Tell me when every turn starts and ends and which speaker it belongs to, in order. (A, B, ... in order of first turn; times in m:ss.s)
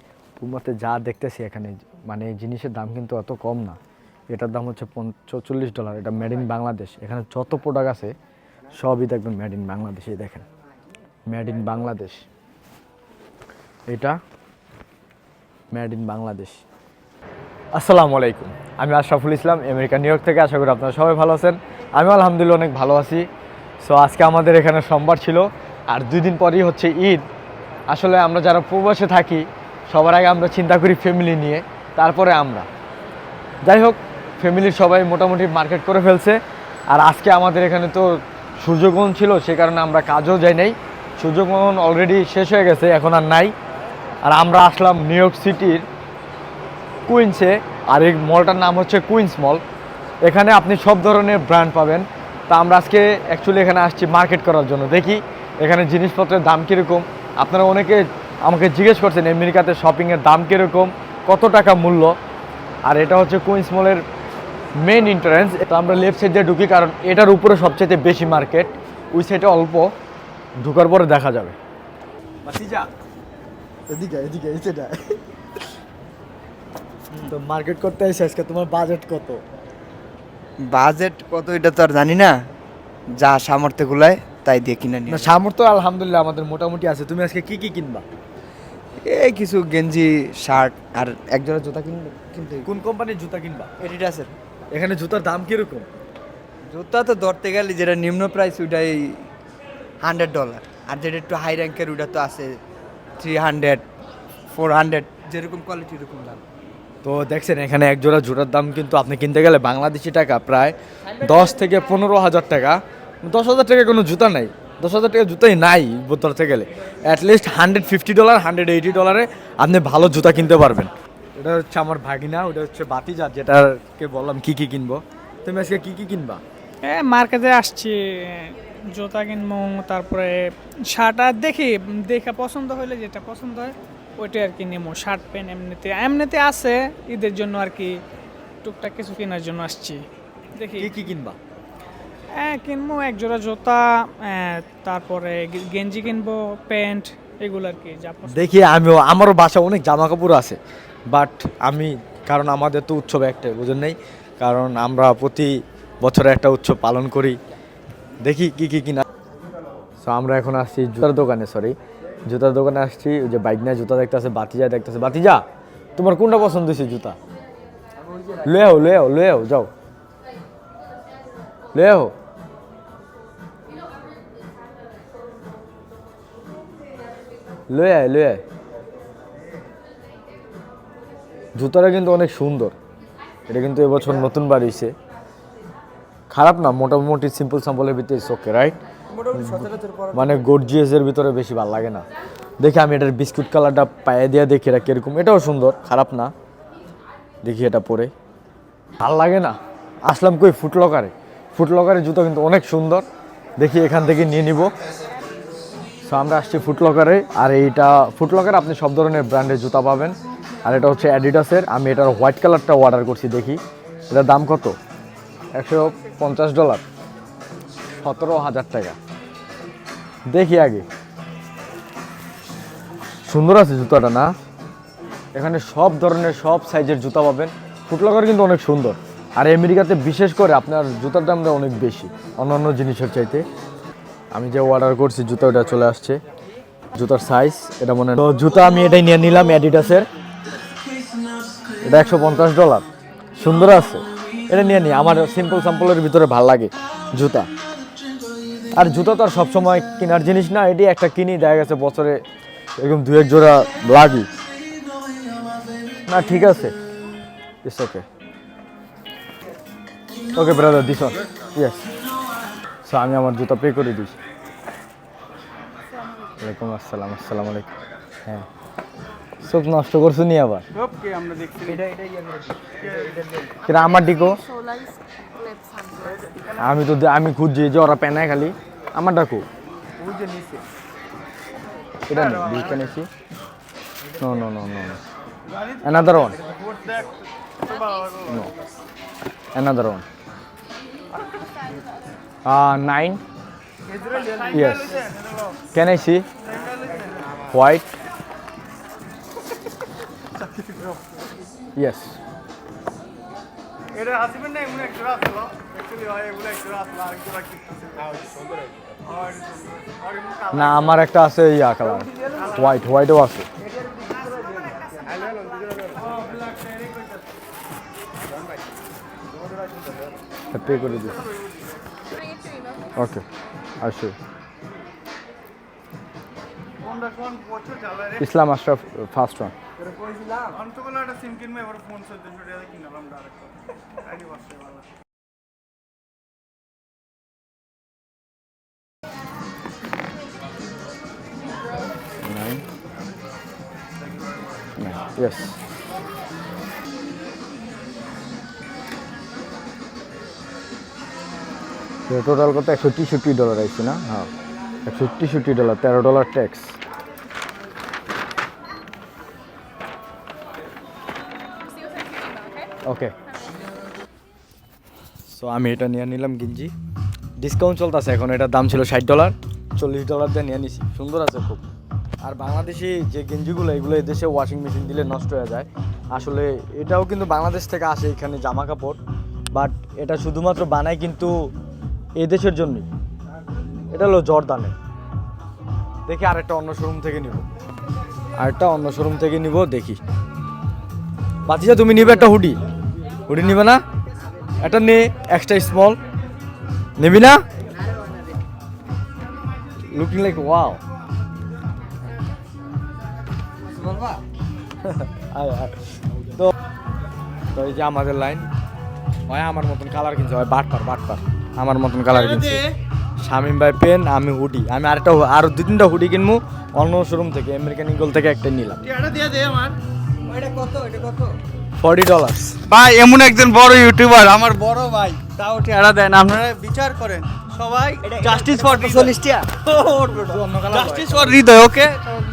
0:00.4-0:03.8 A
0:04.3-0:08.1 A
0:08.8-0:10.4 A
0:11.3-0:12.2 A
0:13.9-0:14.2 A
0:15.7-0:16.6 A
0:17.7-0:23.3 A
0:23.8-0:27.2 A
0:27.9-0:32.7 A
0:33.6-0:36.4 A
0:36.9-0:43.5 A
0:44.2-0:45.8 A
0:47.1-0:49.6 A
0:50.2-1:02.2 A
1:02.8-1:04.0 A
1:04.8-1:09.9 A
1:10.6-1:11.6 A
1:12.4-1:12.9 A
1:13.9-1:15.2 A
1:17.2-1:19.4 A
1:20.7-1:22.4 B
1:23.2-1:25.3 B
1:25.1-1:28.0 A
1:29.0-1:32.7 B
1:32.6-1:33.7 A
1:33.8-1:34.4 B
1:34.7-1:35.9 A
1:36.7-1:39.2 B
1:40.0-1:42.6 B
1:43.2-1:43.9 B
1:44.5-1:46.4 B
1:47.0-2:06.4 A
2:06.8-2:18.0 C
2:18.6-2:20.9 C
2:20.8-2:21.4 A
2:22.3-2:28.5 C
2:28.3-2:37.4 A
2:38.2-2:39.0 A
2:40.0-2:41.8 A
2:42.3-2:45.4 A
2:46.0-2:47.2 A
2:48.4-2:49.7 A
2:51.7-2:52.1 A
2:57.7-2:58.4 A
3:01.6-3:02.8 A
3:03.5-3:04.9 A
3:06.3-3:08.8 A
3:09.1-3:10.4 B
3:09.4-3:12.0 A
3:12.6-3:16.3 A
3:17.4-3:18.1 A
3:19.0-3:23.0 A
3:23.6-3:24.7 A
3:26.0-3:34.8 A
3:35.6-3:36.8 A
3:38.0-3:39.0 A
3:40.3-3:40.9 A
3:43.3-3:44.3 A
3:45.4-3:53.4 A
3:54.3-3:56.2 A
3:56.9-4:00.1 A
4:01.8-4:02.8 A
4:03.4-4:07.5 A
4:08.8-4:12.2 A
4:12.8-4:14.3 A
4:16.1-4:16.7 A
4:17.6-4:18.0 A
4:20.4-4:21.9 A
4:22.8-4:24.2 A
4:26.4-4:27.7 A
4:29.4-4:30.6 A
4:30.9-4:31.8 D
4:32.9-4:33.5 B
4:33.6-4:34.5 A
4:34.5-4:36.1 C
4:36.5-4:39.4 A
4:40.0-4:40.6 B
4:42.1-4:43.1 A
4:44.2-4:45.0 A
4:45.8-4:46.4 A
4:46.4-4:48.3 D
4:48.2-4:48.5 A
4:49.6-4:50.0 A
4:52.4-4:53.2 A
4:54.0-4:55.5 D
4:54.5-4:55.0 A
4:55.7-4:56.3 A
4:56.6-4:57.1 D
4:57.5-4:57.9 A
5:01.8-5:02.2 A
5:03.9-5:08.1 D
5:09.2-5:10.5 D
5:10.5-5:13.5 A
5:16.2-5:16.7 D
5:20.5-5:21.2 A
5:23.0-5:23.2 A
5:23.8-5:24.2 A
5:26.9-5:28.1 D
5:28.2-5:29.5 A
5:30.5-5:33.5 D
5:34.1-5:34.7 D
5:42.2-5:42.6 A
5:44.8-5:45.6 A
5:52.1-5:54.3 A
5:54.9-5:56.8 A
6:01.8-6:02.6 C
6:02.8-6:03.1 A
6:05.3-6:06.7 A
6:07.4-6:11.6 A
6:12.2-6:19.0 A
6:19.5-6:21.5 A
6:22.2-6:22.9 A
6:23.9-6:24.8 A
6:26.1-6:27.5 A
6:28.4-6:30.0 A
6:31.5-6:32.6 A
6:33.3-6:33.8 A
6:34.6-6:36.0 A
6:37.0-6:37.4 A
6:39.9-6:40.8 A
6:43.8-6:44.2 B
6:44.8-6:46.5 A
6:47.5-6:48.5 A
6:49.3-6:52.7 A
6:53.2-6:59.0 A
6:59.0-6:59.8 D
7:00.2-7:01.4 B
7:01.8-7:02.6 A
7:02.7-7:08.2 D
7:07.9-7:12.1 B
7:08.2-7:09.1 A
7:09.8-7:11.4 A